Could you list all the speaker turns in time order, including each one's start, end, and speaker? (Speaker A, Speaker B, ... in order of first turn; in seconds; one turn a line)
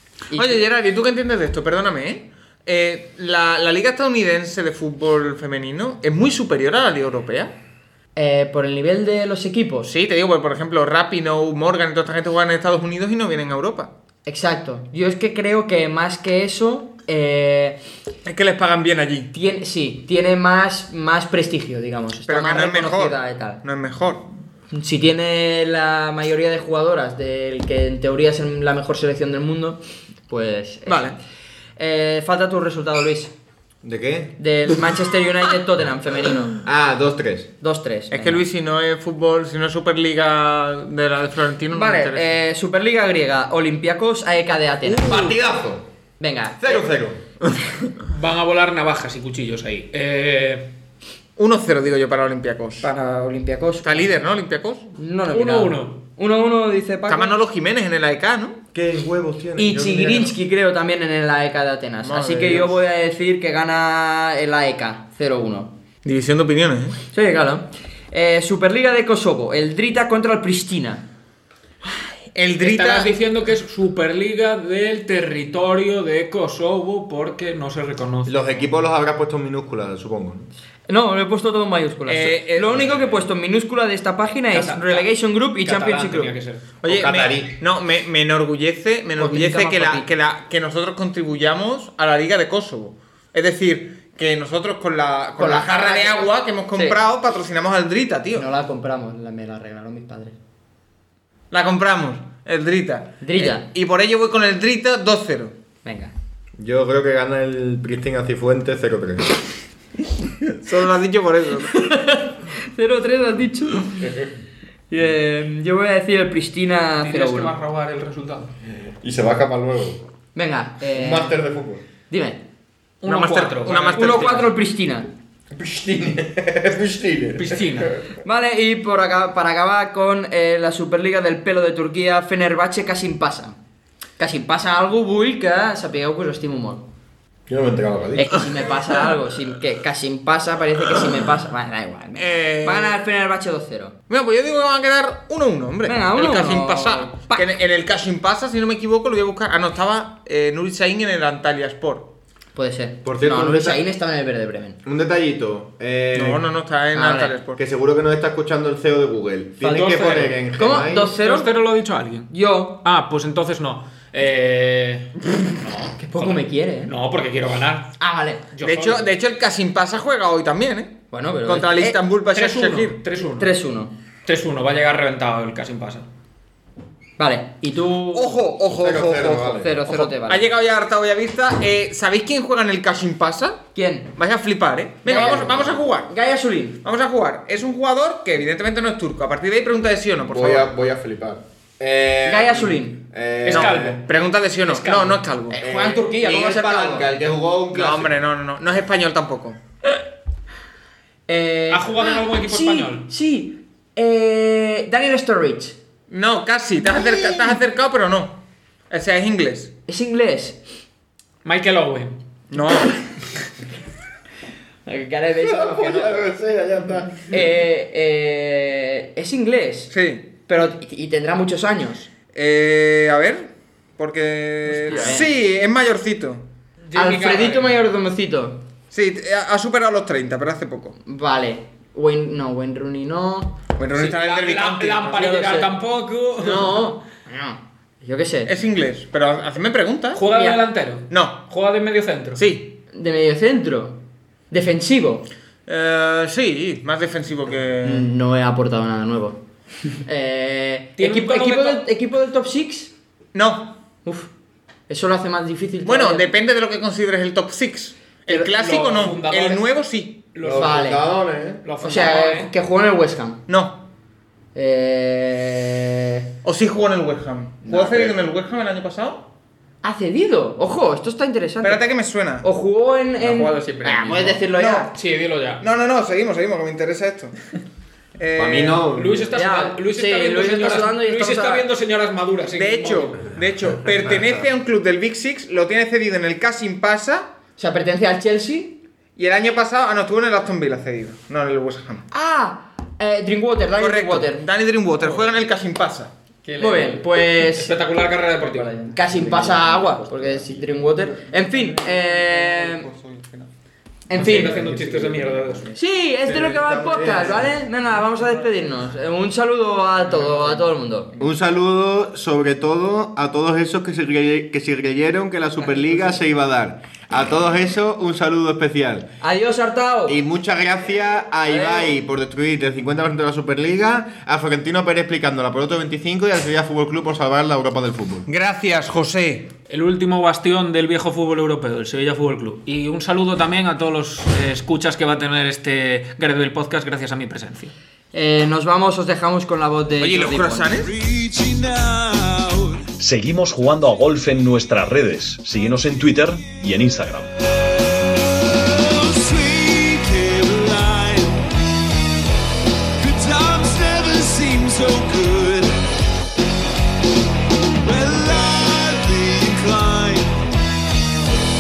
Speaker A: 0.3-0.6
Speaker B: 0.3-7.5
Speaker A: 8.2-9.9
Speaker B: 9.9-13.9
Speaker A: 14.3-17.8
Speaker B: 18.2-19.3
Speaker A: 19.3-23.6
Speaker B: 22.3-24.2
Speaker A: 24.7-31.1
Speaker B: 30.9-31.2
Speaker A: 31.8-33.3
Speaker C: 33.8-34.4
Speaker A: 34.4-36.6
Speaker C: 36.6-37.5
Speaker A: 37.6-38.4
Speaker B: 38.1-42.3
Speaker A: 41.7-45.4
Speaker C: 44.9-45.9
Speaker A: 46.2-46.9
Speaker C: 46.6-47.5
Speaker D: 48.1-50.7
Speaker B: 51.4-52.9
Speaker A: 52.8-54.0
Speaker B: 53.8-54.9
Speaker A: 55.0-57.4
Speaker D: 55.3-56.0
Speaker B: 57.1-58.6
Speaker C: 58.7-60.4
Speaker A: 59.6-65.7
Speaker B: 62.0-62.8
Speaker B: 66.0-67.0
Speaker A: 67.1-71.0
Speaker B: 72.3-73.1
Speaker D: 72.6-78.3
Speaker C: 78.2-80.5
Speaker A: 80.9-86.3
Speaker B: 82.1-82.8
Speaker D: 84.5-86.7
Speaker B: 86.8-98.5
Speaker C: 86.8-87.5
Speaker A: 89.2-90.1
Speaker A: 95.4-97.0
Speaker A: 98.4-100.4
Speaker B: 101.5-105.5
Speaker A: 103.2-103.7
Speaker A: 105.8-106.1
Speaker C: 106.6-109.4
Speaker B: 110.6-111.8
Speaker A: 111.7-114.1
Speaker C: 114.0-114.3
Speaker A: 114.9-117.5
Speaker D: 117.0-118.5
Speaker C: 118.9-120.0
Speaker A: 120.3-121.4
Speaker C: 120.9-121.8
Speaker A: 122.1-122.4
Speaker D: 123.0-124.5
Speaker B: 123.1-124.5
Speaker A: 123.9-125.1
Speaker C: 125.5-127.9
Speaker D: 127.4-127.9
Speaker A: 128.2-133.6
Speaker A: 134.2-136.9
Speaker C: 137.5-138.5
Speaker A: 138.2-144.0
Speaker B: 142.2-143.0
Speaker B: 144.1-152.1
Speaker A: 145.8-147.6
Speaker A: 152.6-154.8
Speaker C: 153.0-153.8
Speaker C: 154.8-156.4
Speaker B: 156.1-157.6
Speaker A: 156.9-157.4
Speaker C: 157.6-161.1
Speaker A: 159.6-160.0
Speaker D: 159.6-160.4
Speaker A: 160.5-161.5
Speaker D: 161.2-167.9
Speaker A: 162.3-162.8
Speaker A: 165.9-166.9
Speaker A: 168.0-168.5
Speaker D: 168.5-169.1
Speaker B: 168.6-173.0
Speaker A: 171.1-172.0
Speaker D: 172.3-173.5
Speaker A: 173.4-173.9
Speaker D: 174.3-176.1
Speaker A: 177.2-178.4
Speaker B: 178.1-183.6
Speaker C: 178.7-179.8
Speaker A: 179.6-180.4
Speaker A: 183.7-184.1
Speaker B: 184.2-186.1
Speaker A: 185.1-186.8
Speaker C: 185.1-185.8
Speaker B: 186.8-190.7
Speaker C: 190.3-194.0
Speaker A: 192.3-193.0
Speaker D: 193.4-194.1
Speaker B: 193.5-195.6
Speaker D: 194.6-195.2
Speaker A: 195.5-197.1
Speaker C: 195.6-198.2
Speaker B: 197.7-199.6
Speaker A: 201.3-205.8
Speaker D: 201.7-203.1
Speaker B: 206.1-209.7
Speaker A: 209.9-210.6
Speaker D: 211.4-212.2
Speaker B: 212.5-213.0
Speaker A: 214.9-216.2
Speaker C: 215.4-217.4
Speaker A: 217.3-219.9
Speaker B: 219.9-220.3
Speaker A: 220.5-222.1
Speaker B: 222.3-226.4
Speaker A: 224.9-225.3
Speaker D: 226.9-227.8
Speaker A: 226.9-228.6
Speaker B: 228.9-231.0
Speaker A: 231.0-233.6
Speaker B: 233.8-235.7
Speaker D: 233.9-236.8
Speaker A: 236.4-238.5
Speaker B: 238.5-240.2
Speaker D: 240.1-242.4
Speaker A: 240.3-240.6
Speaker B: 241.1-241.4
Speaker B: 242.4-242.8
Speaker A: 242.9-244.0
Speaker A: 244.5-245.3
Speaker B: 245.7-248.1
Speaker A: 247.8-249.4
Speaker A: 250.0-252.9
Speaker D: 251.0-251.8
Speaker B: 253.3-253.8
Speaker A: 254.9-256.3
Speaker B: 255.8-260.2
Speaker D: 258.6-259.7
Speaker D: 260.3-261.0
Speaker C: 260.4-261.6
Speaker A: 260.6-261.0
Speaker D: 261.6-262.5
Speaker A: 261.8-263.4
Speaker B: 263.5-263.8
Speaker A: 264.6-266.3
Speaker B: 266.4-269.3
Speaker C: 267.6-268.2
Speaker A: 269.8-271.9
Speaker B: 271.6-272.4
Speaker A: 272.4-274.9
Speaker C: 273.3-274.4
Speaker B: 274.5-275.0
Speaker D: 274.9-275.6
Speaker B: 275.6-277.3
Speaker B: 278.2-278.9
Speaker C: 278.4-279.4
Speaker D: 278.9-283.3
Speaker A: 279.3-281.6
Speaker B: 282.5-287.3
Speaker A: 287.6-288.8
Speaker B: 289.2-292.0
Speaker A: 292.1-294.5
Speaker B: 293.7-296.1
Speaker D: 296.4-298.7
Speaker A: 296.6-297.8
Speaker A: 298.4-302.9
Speaker C: 299.0-300.7
Speaker B: 301.3-303.5
Speaker A: 304.1-304.6
Speaker D: 304.1-305.8
Speaker C: 304.6-305.0
Speaker A: 305.8-311.1
Speaker C: 306.3-307.5
Speaker C: 311.2-319.1
Speaker A: 319.2-320.2
Speaker C: 320.1-328.3
Speaker A: 321.4-322.0
Speaker B: 328.3-329.5
Speaker D: 329.7-337.7
Speaker A: 338.1-340.7
Speaker B: 340.0-340.9
Speaker E: 340.7-342.9
Speaker F: 343.0-347.3
Speaker E: 348.4-351.5
Speaker E: 353.0-355.8
Speaker E: 357.8-360.5